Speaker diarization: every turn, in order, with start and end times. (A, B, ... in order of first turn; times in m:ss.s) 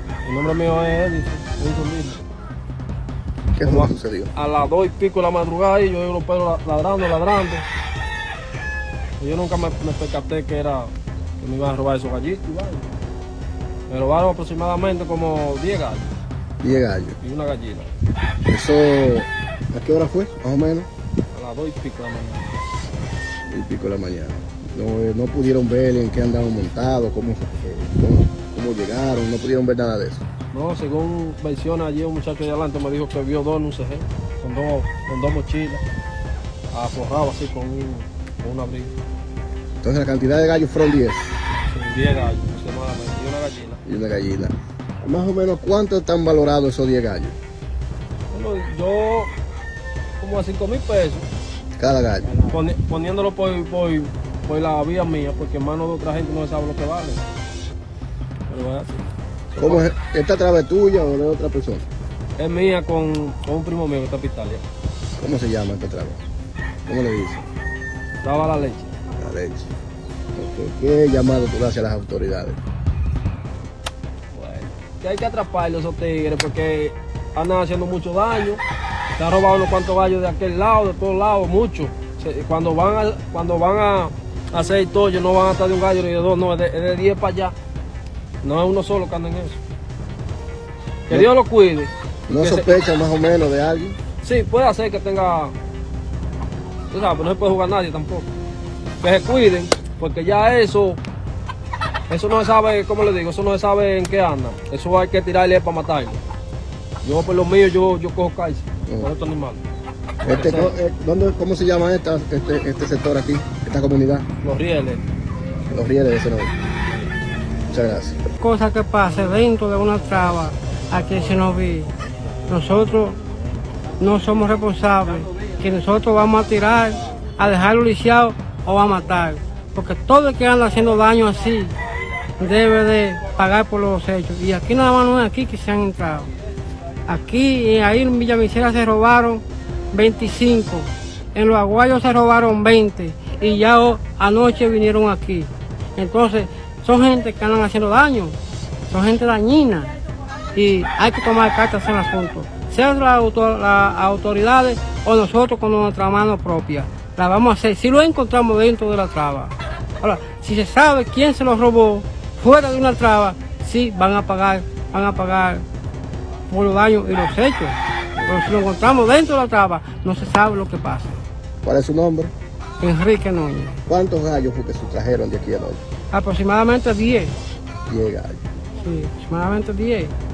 0:00.2-0:02.2 A
0:03.5-0:04.3 B
0:03.6-0:07.6 A
0:09.2-0:12.9 A
0:13.9-0:16.2 A
0:16.6-0:17.2 B
0:17.2-0:17.9 A
0:18.4-0:20.9 B
0:21.3-0:22.5 A
0:23.5-0:30.2 B
0:30.5-0:35.8 A
0:36.7-0:38.9 A
0:39.8-0:41.4 B
0:41.7-0:43.8 A
0:43.8-0:47.4 B
0:48.3-0:49.3 A
0:50.2-0:51.2 A
0:51.8-0:52.6 B
0:52.4-0:57.2 A
0:58.5-0:59.9 A
0:59.6-1:01.8 B
1:02.4-1:04.6 A
1:05.2-1:06.2 B
1:06.8-1:07.5 B
1:08.2-1:08.9 A
1:09.2-1:09.7 B
1:10.3-1:12.6 B
1:14.3-1:18.6 A
1:19.2-1:27.5 A
1:28.4-1:29.6 A
1:31.1-1:32.7 A
1:32.3-1:34.0 B
1:34.2-1:35.5 A
1:36.9-1:38.3 A
1:39.0-1:41.0 A
1:42.1-1:46.2 A
1:47.0-1:49.6 A
1:50.2-1:54.3 B
1:50.2-1:50.7 A
1:54.4-1:55.0 A
1:55.7-1:56.5 B
1:57.7-1:58.2 B
1:58.4-2:01.9 C
2:02.4-2:03.2 C
2:04.0-2:11.8 C
2:12.4-2:16.3 C
2:17.0-2:28.4 C
2:28.9-2:29.9 C
2:30.5-2:45.6 C
2:46.5-2:51.2 C
2:51.6-2:52.3 B
2:52.8-2:53.8 C
2:53.9-2:55.8 B
2:56.1-2:57.4 C
2:57.9-2:58.4 B
2:58.8-3:00.1 C